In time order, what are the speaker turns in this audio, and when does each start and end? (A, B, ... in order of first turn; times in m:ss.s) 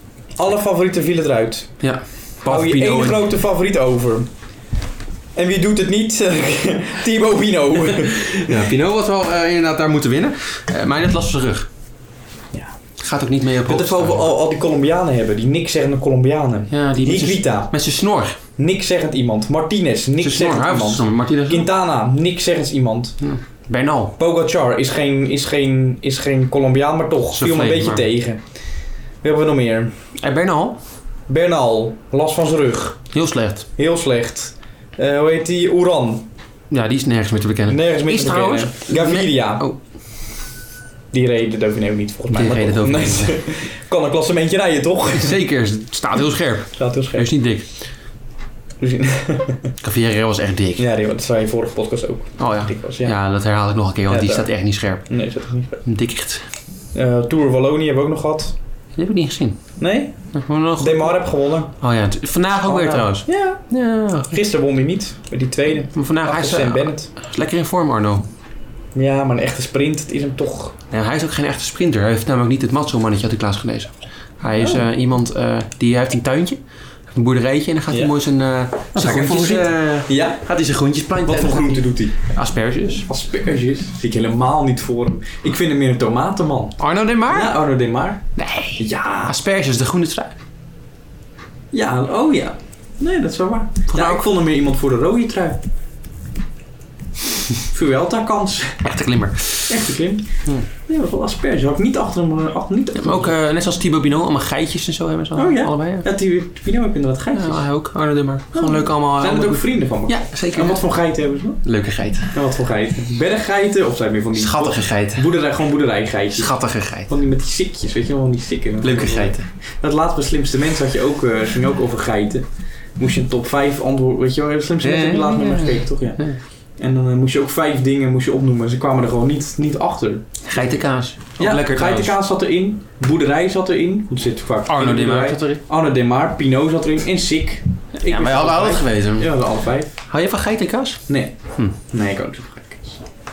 0:00.4-0:04.3 A
0:01.8-0:03.2 B
0:05.3-0:08.5 A
0:08.0-0:11.7 B
0:13.0-0:14.3 B
0:13.6-0:17.8 A
0:16.7-0:18.4 B
0:18.6-0:23.2 A
0:20.2-0:21.7 B
0:23.2-0:24.1 B
0:24.2-0:28.4 A
0:27.3-0:28.1 B
0:29.2-0:29.9 A
0:30.2-0:30.8 B
0:31.3-0:33.1 A
0:33.1-0:33.7 B
0:33.8-0:36.3 A
0:36.7-0:39.8 B
0:37.7-0:39.7 A
0:41.1-0:45.4 A
0:42.3-0:43.3 B
0:45.1-0:47.6 B
0:46.8-0:47.3 A
0:48.8-0:49.7 A
0:49.8-0:50.9 B
0:50.8-0:53.1 A
0:52.4-0:55.2 B
0:54.1-0:54.5 A
0:55.0-0:55.8 A
0:55.8-0:56.4 B
0:56.9-0:58.5 A
0:59.0-0:59.7 B
0:59.8-1:01.7 A
1:00.3-1:01.2 B
1:01.8-1:04.4 B
1:02.6-1:07.1 A
1:05.9-1:08.2 B
1:08.9-1:10.7 A
1:10.9-1:23.1 B
1:14.6-1:14.8 A
1:18.9-1:20.4 A
1:21.2-1:22.2 A
1:23.1-1:29.3 A
1:26.8-1:27.6 B
1:28.4-1:30.3 B
1:31.7-1:35.6 A
1:33.9-1:34.2 B
1:37.7-1:38.9 A
1:38.8-1:39.9 B
1:39.7-1:43.3 A
1:42.9-1:46.1 B
1:45.3-1:47.7 A
1:47.3-1:50.9 B
1:48.5-1:51.7 A
1:51.6-1:52.4 B
1:52.3-2:10.6 A
1:54.3-1:55.3 B
1:56.4-1:57.1 B
1:58.8-1:59.5 B
2:04.8-2:06.4 B
2:10.4-2:12.2 B
2:11.4-2:20.0 A
2:14.7-2:15.6 B
2:18.0-2:21.8 B
2:21.1-2:23.0 A